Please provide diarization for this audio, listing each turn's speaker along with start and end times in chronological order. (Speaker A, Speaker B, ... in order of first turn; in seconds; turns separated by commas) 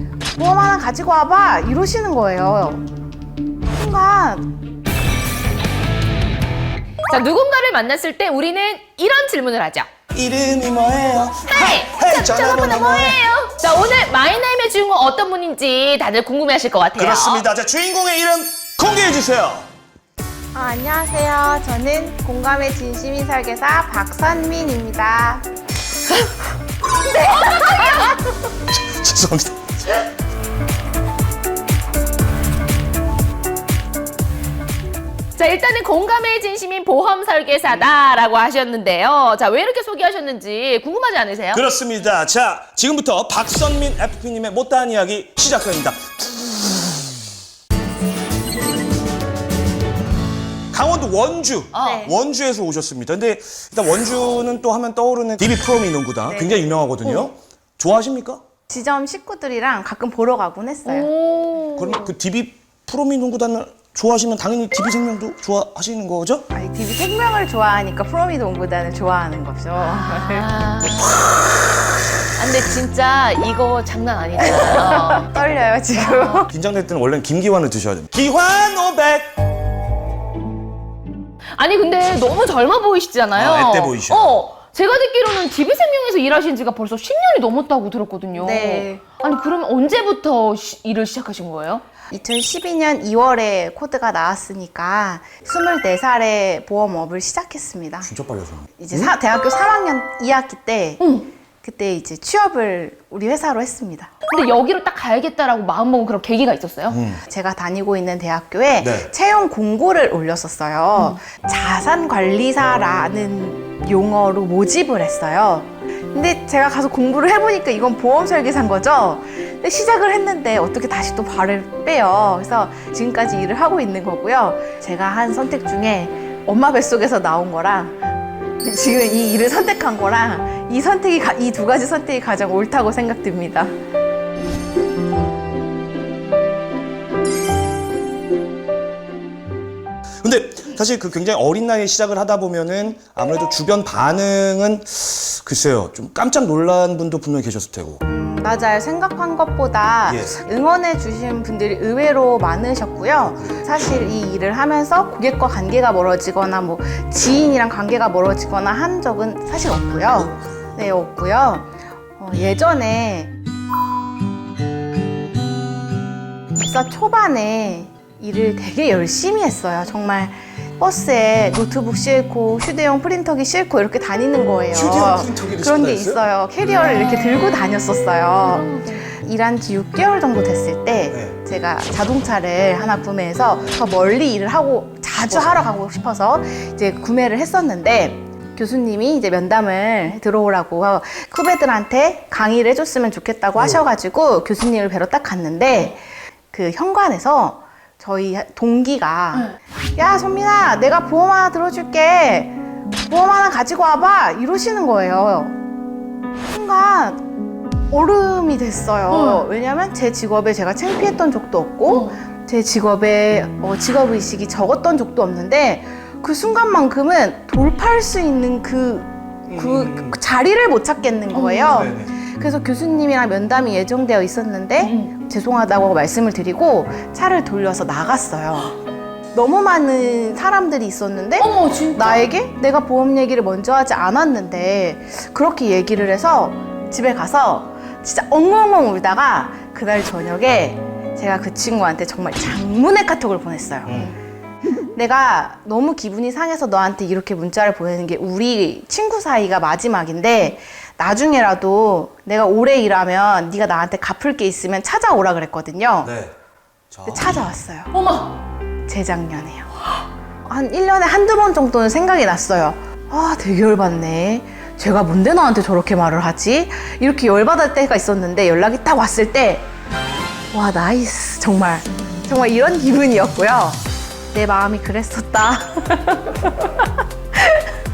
Speaker A: 0.3-2.8, Speaker A: 3.7-4.5, Speaker B: 7.1-9.9, Speaker C: 10.1-13.2, Speaker B: 11.5-17.5, Speaker C: 17.0-19.7, Speaker A: 20.5-25.4, Speaker B: 27.1-28.2, Speaker C: 28.7-30.0, Speaker B: 35.4-41.6, Speaker C: 41.5-46.9, Speaker C: 50.7-58.4, Speaker B: 51.7-52.0, Speaker A: 51.8-52.1, Speaker A: 56.3-57.3, Speaker A: 58.7-61.1, Speaker B: 60.9-62.1, Speaker C: 61.8-66.5, Speaker A: 66.5-70.5, Speaker B: 69.8-71.6, Speaker B: 72.4-75.3, Speaker A: 74.4-76.5, Speaker B: 75.9-76.5, Speaker C: 76.5-79.3, Speaker B: 81.6-91.8, Speaker C: 83.3-84.4, Speaker A: 88.3-89.0, Speaker A: 92.1-98.1, Speaker C: 98.0-99.1, Speaker A: 98.8-101.0, Speaker B: 101.0-101.3, Speaker A: 101.6-104.1, Speaker B: 104.3-107.0, Speaker C: 106.9-107.2, Speaker A: 107.3-128.0, Speaker C: 108.8-109.1, Speaker A: 128.6-133.7, Speaker C: 140.2-148.0, Speaker A: 148.1-163.3, Speaker C: 150.1-150.5, Speaker C: 160.1-160.7, Speaker A: 166.6-205.6, Speaker C: 174.7-176.2, Speaker B: 176.7-177.6, Speaker B: 178.4-179.1, Speaker C: 185.3-185.6, Speaker A: 206.5-207.2, Speaker A: 207.9-228.7, Speaker B: 209.1-209.4, Speaker B: 211.9-212.2, Speaker C: 219.5-220.2, Speaker B: 221.3-221.9, Speaker C: 221.7-222.1, Speaker B: 224.8-225.1, Speaker A: 229.3-244.1, Speaker B: 231.4-232.2, Speaker C: 243.9-244.1, Speaker A: 244.9-256.1, Speaker C: 256.0-256.3, Speaker C: 256.9-257.5, Speaker A: 257.1-257.9, Speaker B: 257.9-258.3, Speaker A: 258.9-259.7, Speaker A: 260.5-269.7, Speaker A: 270.5-273.8, Speaker A: 274.3-276.9, Speaker A: 277.4-277.7